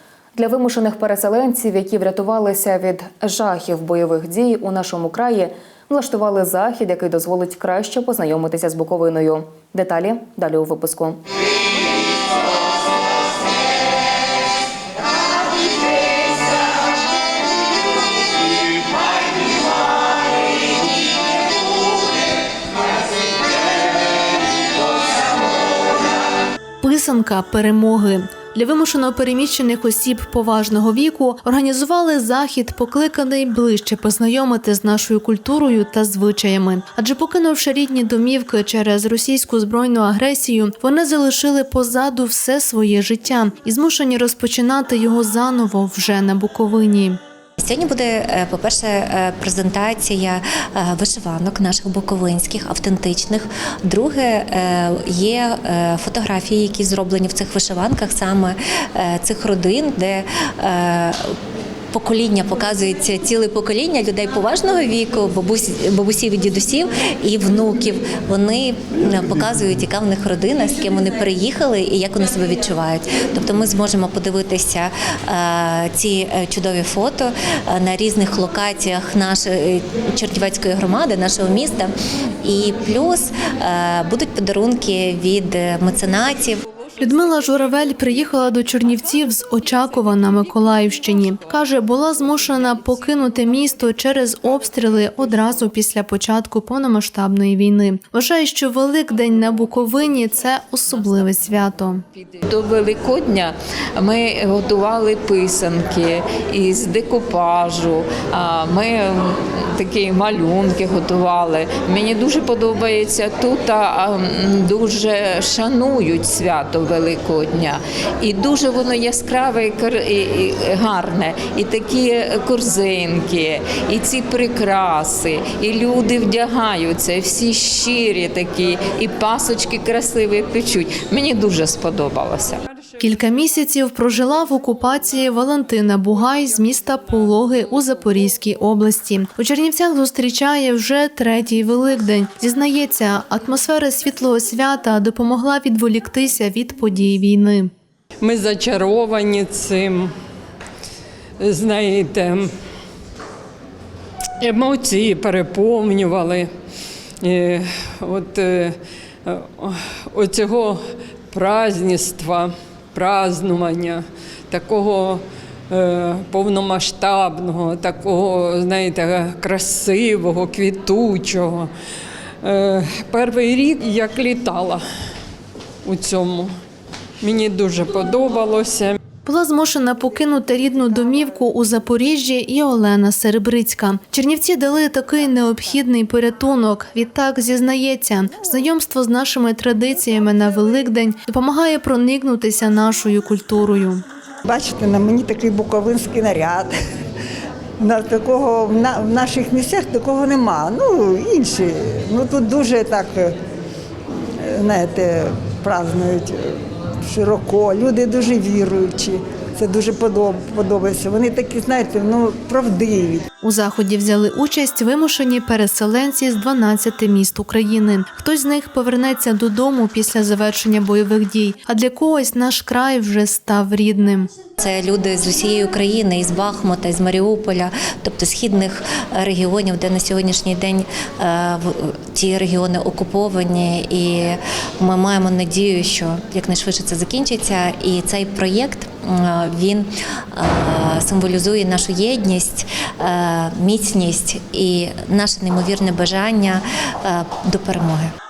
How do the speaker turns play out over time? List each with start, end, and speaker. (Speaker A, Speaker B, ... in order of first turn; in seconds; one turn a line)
Speaker A: 0.3-11.2
Speaker B: 26.8-47.2
Speaker C: 47.6-61.4
Speaker C: 61.9-81.9
Speaker C: 82.4-86.6
Speaker B: 87.0-102.0
Speaker D: 102.6-132.6
Speaker B: 133.0-147.7
Speaker E: 148.2-150.1
Speaker E: 151.4-152.5
Speaker E: 154.4-156.5
Speaker E: 157.2-160.8
Speaker E: 161.3-171.7
Speaker E: 172.4-174.8
Speaker E: 175.8-176.5
Speaker E: 177.2-179.0
Speaker B: 179.2-194.0
Speaker F: 194.5-196.8
Speaker F: 197.8-203.4
Speaker F: 204.4-213.3
Speaker B: 213.4-224.3
Speaker C: 224.6-248.1